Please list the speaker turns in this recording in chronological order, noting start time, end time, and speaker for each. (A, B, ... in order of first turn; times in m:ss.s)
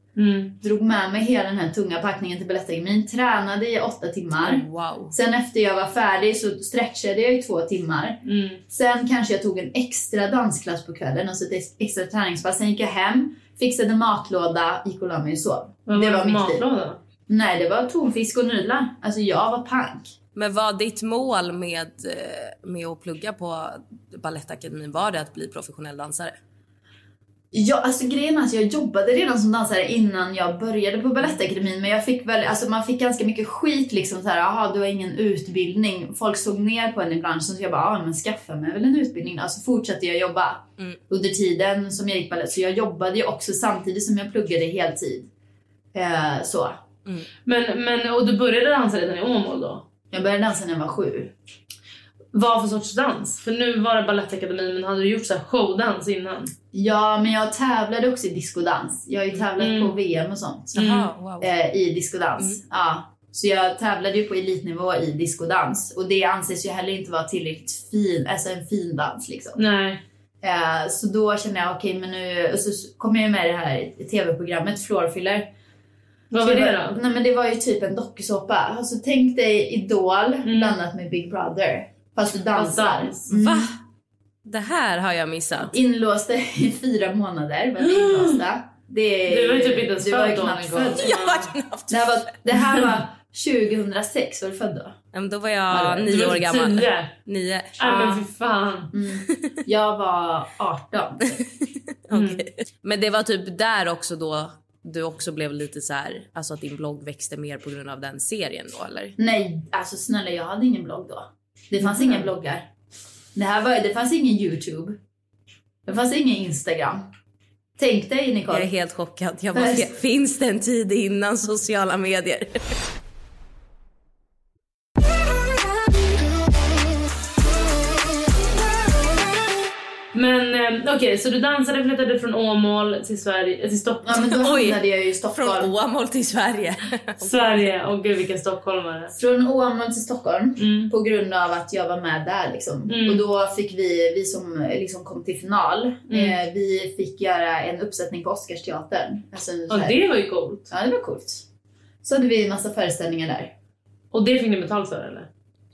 0:00.2-0:00.6 A
0:00.6-0:16.6 B
0:04.4-0:05.1 C
0:08.2-0:08.6 A
0:15.9-0:17.0 A
0:17.3-0:20.2 B
0:20.4-0:26.4 C
0:27.5-0:45.3 B
0:45.9-0:46.8 B
0:47.5-0:49.9 A
0:50.1-0:51.3 B
0:52.3-0:56.5 A
0:56.7-1:09.6 B
0:59.6-1:00.0 A
1:00.8-1:01.1 A
1:00.8-1:01.5 C
1:09.6-1:10.0 A
1:10.4-1:15.5 B
1:16.3-1:17.0 A
1:16.4-1:23.7 B
1:20.5-1:20.8 A
1:22.5-1:23.3 A
1:23.3-1:23.8 C
1:24.4-1:25.7 C
1:25.7-1:31.2 B
1:27.8-1:28.4 A
1:29.3-1:31.5 A
1:31.0-1:32.1 C
1:31.9-1:35.0 B
1:35.1-1:38.2 C
1:35.7-1:36.3 B
1:36.0-1:37.2 A
1:37.8-1:38.9 A
1:38.9-1:41.4 B
1:39.3-1:39.6 C
1:41.4-1:49.2 C
1:42.1-1:42.4 A
1:49.2-1:52.7 B
1:51.8-1:52.3 A
1:53.4-1:55.0 B
1:55.9-1:57.1 B
1:57.8-1:58.7 B
1:58.5-2:02.8 C
1:59.5-1:59.9 B
2:10.1-2:14.3 A
2:14.0-2:15.7 B
2:14.4-2:14.8 C
2:15.3-2:17.6 C
2:17.2-2:19.2 A
2:19.2-2:30.0 B
2:20.6-2:20.9 A
2:22.9-2:23.2 A
2:26.1-2:26.4 A
2:29.7-2:30.7 A
2:30.7-2:31.4 B
2:32.0-2:33.5 B
2:34.1-2:35.3 A